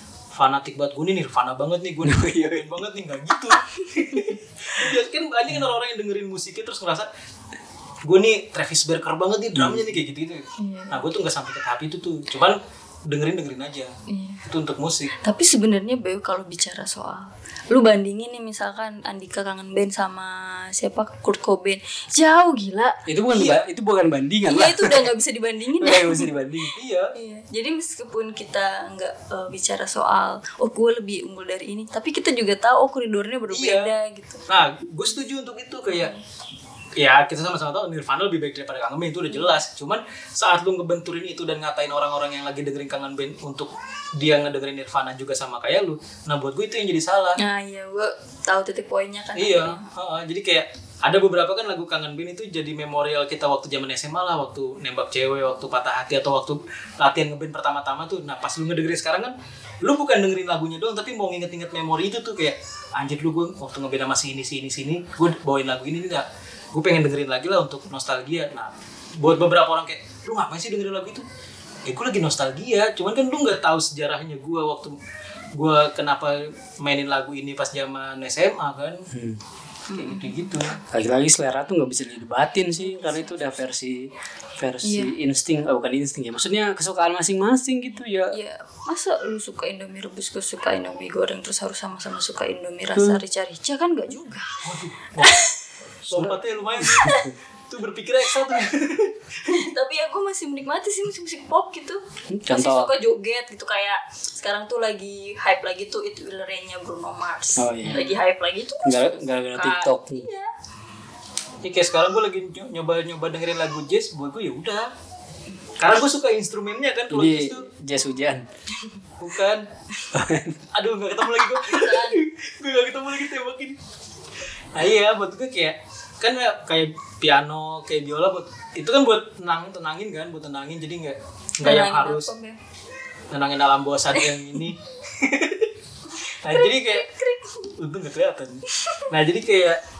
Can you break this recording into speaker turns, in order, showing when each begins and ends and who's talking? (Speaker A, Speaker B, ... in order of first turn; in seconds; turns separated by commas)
Speaker A: 0.3-7.1, Speaker B: 2.0-2.7, Speaker C: 3.6-4.4, Speaker A: 8.0-13.9, Speaker B: 9.6-9.9, Speaker C: 10.6-11.0, Speaker C: 14.1-14.4, Speaker A: 14.5-15.1, Speaker C: 15.1-23.0, Speaker B: 23.1-25.1, Speaker A: 23.3-23.6, Speaker C: 24.5-26.3, Speaker B: 25.8-26.8, Speaker A: 26.8-27.1, Speaker C: 27.1-34.5, Speaker A: 33.5-33.9, Speaker A: 34.5-36.1, Speaker C: 35.9-36.2, Speaker A: 37.0-47.4, Speaker C: 47.4-49.9, Speaker A: 49.4-71.2, Speaker A: 71.9-75.0, Speaker A: 75.5-79.1, Speaker B: 79.1-79.4, Speaker C: 79.9-80.6, Speaker A: 79.9-80.8, Speaker B: 80.9-88.4, Speaker C: 82.8-83.3, Speaker C: 84.8-85.1, Speaker C: 88.3-94.6, Speaker B: 92.9-93.2, Speaker A: 94.6-95.4, Speaker C: 95.2-95.6, Speaker A: 96.1-97.2, Speaker B: 96.1-97.3, Speaker C: 96.8-97.3, Speaker A: 97.7-99.7, Speaker C: 99.5-110.5, Speaker B: 102.3-102.9, Speaker B: 107.6-108.1, Speaker A: 107.8-108.1, Speaker B: 108.8-110.2, Speaker A: 111.6-114.9, Speaker A: 115.8-117.7, Speaker B: 117.1-118.5, Speaker A: 119.2-119.7, Speaker B: 120.1-120.7, Speaker A: 120.7-123.8, Speaker C: 121.4-122.2, Speaker A: 124.8-132.3, Speaker C: 131.6-132.6, Speaker A: 133.3-135.7, Speaker C: 134.2-134.6, Speaker C: 136.3-137.7, Speaker A: 136.4-137.1, Speaker A: 137.8-139.8, Speaker C: 138.7-139.1